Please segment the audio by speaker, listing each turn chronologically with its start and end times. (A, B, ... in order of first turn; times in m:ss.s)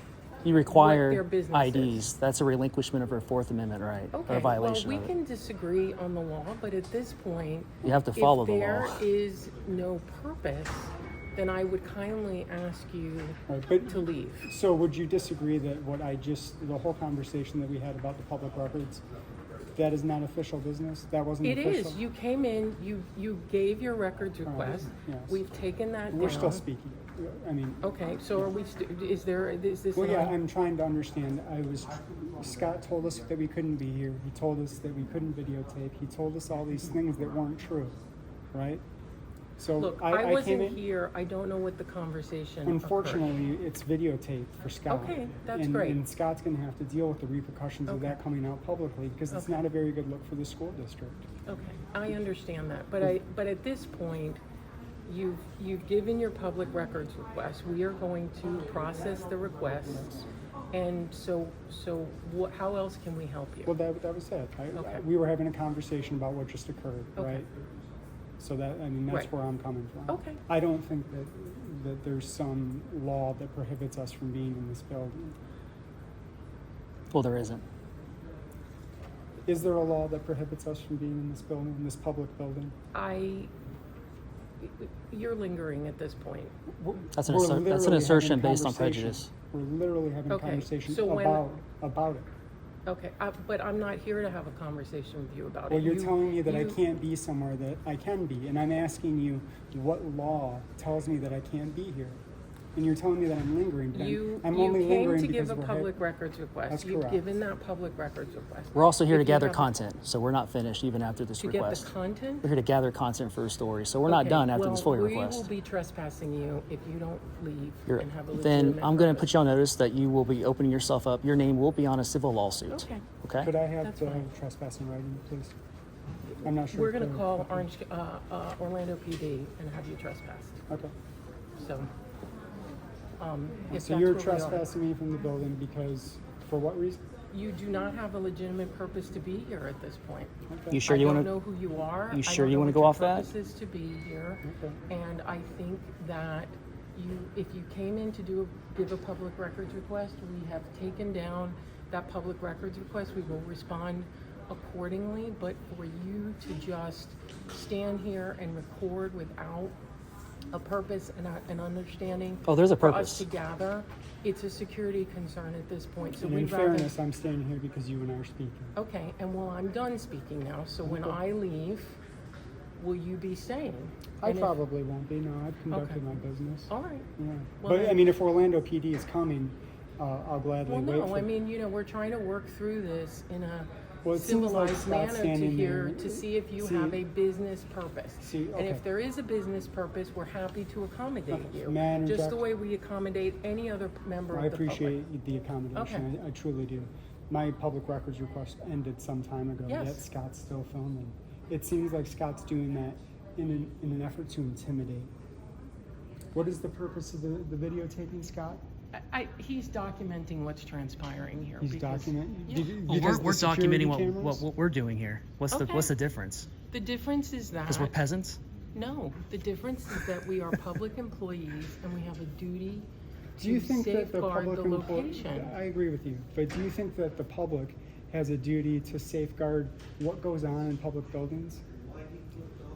0:00.4-0:05.1 A
0:00.7-0:02.0 B
0:04.1-0:14.4 B
0:07.8-0:09.0 A
0:13.5-0:19.0 C
0:19.7-0:22.0 C
0:21.4-0:26.6 B
0:24.4-0:25.4 C
0:26.1-0:28.5 C
0:27.8-0:30.4 B
0:29.9-0:37.9 C
0:38.5-0:38.8 C
0:39.6-0:40.8 C
0:39.7-0:43.4 B
0:42.6-0:51.2 C
0:44.9-0:46.0 B
0:47.9-0:48.2 B
0:49.3-0:49.6 B
0:51.5-0:54.4 B
0:55.0-1:03.7 B
1:03.6-1:07.5 C
1:04.7-1:05.0 B
1:07.2-1:07.5 B
1:08.4-1:15.4 C
1:10.1-1:10.4 B
1:17.1-1:17.6 A
1:19.4-1:22.7 C
1:22.9-1:23.5 B
1:24.6-1:26.5 B
1:26.8-1:32.3 C
1:27.2-1:29.3 A
1:30.3-1:31.5 B
1:32.8-1:36.8 B
1:35.7-1:42.2 C
1:42.7-1:45.9 C
1:43.9-1:49.8 B
1:46.7-1:47.2 C
1:48.7-1:51.9 A
1:51.4-1:52.5 B
1:52.4-1:55.5 A
1:54.0-1:59.3 B
1:57.9-2:03.5 A
2:02.7-2:03.0 B
2:03.4-2:05.5 C
2:03.8-2:04.3 B
2:06.4-2:07.7 C
2:06.7-2:10.6 B
2:11.6-2:11.9 B
2:13.2-2:14.6 B
2:13.7-2:17.0 C
2:17.3-2:20.3 B
2:20.5-2:20.8 C
2:20.7-2:21.3 A
2:20.8-2:39.8 B
2:22.1-2:23.3 A
2:24.4-2:24.8 C
2:40.5-2:46.9 B
2:42.5-2:43.2 A
2:46.2-2:48.7 C
2:48.8-2:52.0 B
2:50.8-2:51.2 C
2:52.8-2:54.6 B
2:54.2-3:01.3 C
2:55.7-2:56.0 B
2:56.7-2:57.1 B
2:57.6-2:58.1 B
3:00.6-3:15.0 B
3:04.0-3:07.0 C
3:08.2-3:08.8 C
3:11.3-3:12.4 C
3:14.3-3:25.1 C
3:15.7-3:16.1 B
3:19.7-3:20.0 B
3:26.3-3:28.6 C
3:28.9-3:32.7 B
3:31.6-3:34.4 C
3:32.7-3:36.5 A
3:35.5-3:35.9 B
3:36.7-3:38.0 B
3:37.7-3:38.4 A
3:38.7-3:45.5 B
3:43.4-3:51.6 C